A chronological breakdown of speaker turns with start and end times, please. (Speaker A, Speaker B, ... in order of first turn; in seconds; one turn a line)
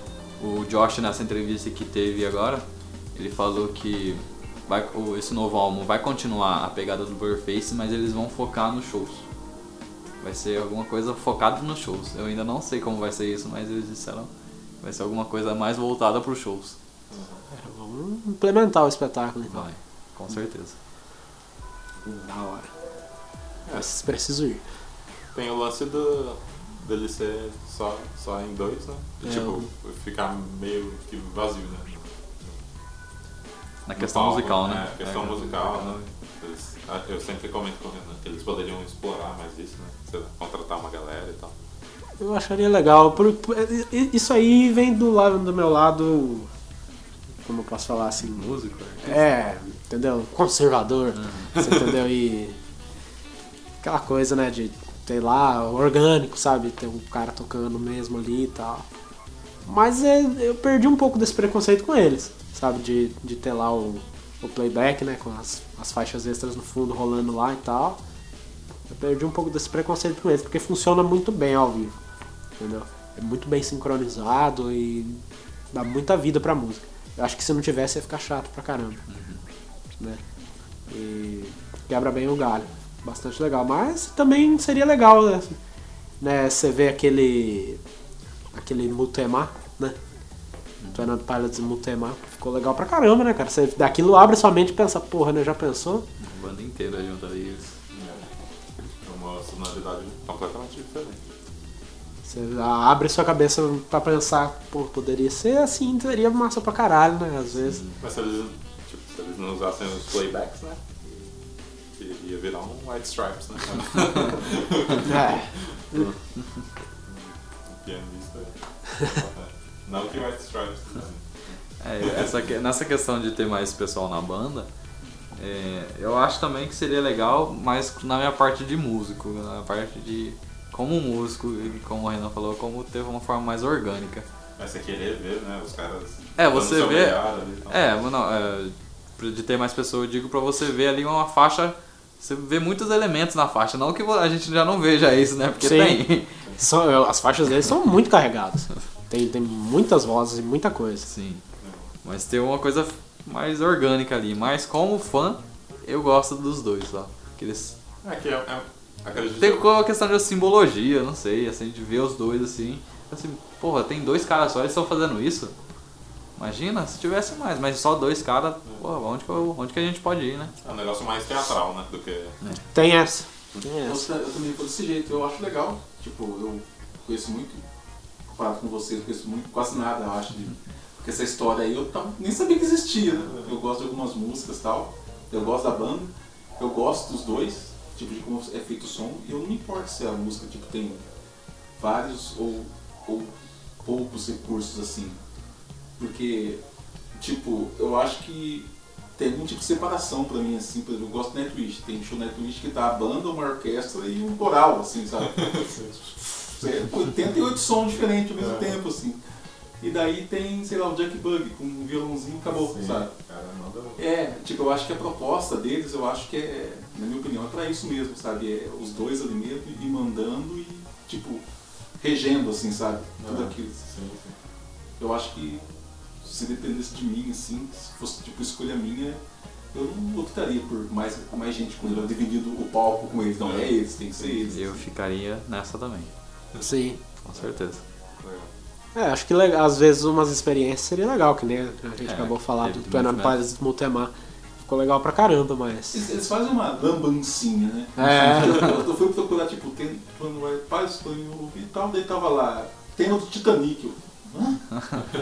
Speaker A: 0.4-9.2
Speaker A: 10.2-14.3
Speaker A: 14.8-16.8
Speaker B: 17.1-17.4
Speaker C: 17.5-19.6
Speaker A: 19.5-20.8
Speaker C: 22.0-22.7
Speaker C: 23.7-24.6
Speaker B: 25.3-32.6
Speaker C: 29.2-29.7
Speaker A: 33.9-36.1
Speaker B: 34.0-41.5
Speaker C: 42.2-46.5
Speaker C: 47.4-48.5
Speaker A: 48.1-49.2
Speaker C: 49.0-52.6
Speaker A: 51.1-51.6
Speaker C: 53.8-58.8
Speaker C: 59.6-68.0
Speaker C: 68.9-72.0
Speaker C: 72.6-79.0
Speaker A: 79.1-79.4
Speaker C: 80.9-85.6
Speaker C: 86.2-87.8
Speaker C: 88.5-90.0
Speaker A: 90.8-91.0
Speaker C: 90.9-96.0
Speaker A: 96.2-97.7
Speaker B: 97.9-98.2
Speaker B: 99.0-101.2
Speaker C: 102.2-107.8
Speaker A: 107.6-108.0
Speaker B: 108.0-111.1
Speaker B: 112.0-116.2
Speaker C: 115.0-116.0
Speaker B: 117.1-122.3
Speaker A: 121.8-124.7
Speaker A: 125.3-134.2
Speaker B: 134.6-137.8
Speaker A: 136.4-146.3
Speaker C: 145.6-146.0
Speaker C: 146.6-151.1
Speaker A: 151.0-151.4
Speaker B: 151.6-151.9
Speaker A: 152.0-157.8
Speaker B: 158.0-159.6
Speaker A: 159.4-165.5
Speaker A: 166.4-170.5
Speaker B: 170.6-172.4
Speaker C: 172.7-174.1
Speaker D: 173.8-177.6
Speaker D: 178.3-191.0
Speaker D: 191.8-195.2
Speaker D: 196.0-196.6
Speaker D: 197.2-205.6
Speaker B: 205.2-206.0
Speaker D: 206.4-209.2
Speaker B: 208.4-208.8
Speaker D: 209.8-213.1
Speaker B: 212.5-214.0
Speaker D: 214.0-221.4
Speaker D: 222.0-223.7
Speaker B: 223.2-224.3
Speaker D: 225.0-225.7
Speaker D: 226.2-229.2
Speaker D: 229.7-234.8
Speaker B: 233.4-233.7
Speaker A: 234.4-236.1
Speaker C: 236.6-237.0
Speaker A: 237.2-237.8
Speaker B: 238.2-238.5
Speaker C: 238.9-246.0
Speaker A: 242.0-243.4
Speaker D: 245.9-254.6
Speaker C: 248.0-248.7
Speaker A: 248.4-248.7
Speaker A: 254.7-255.1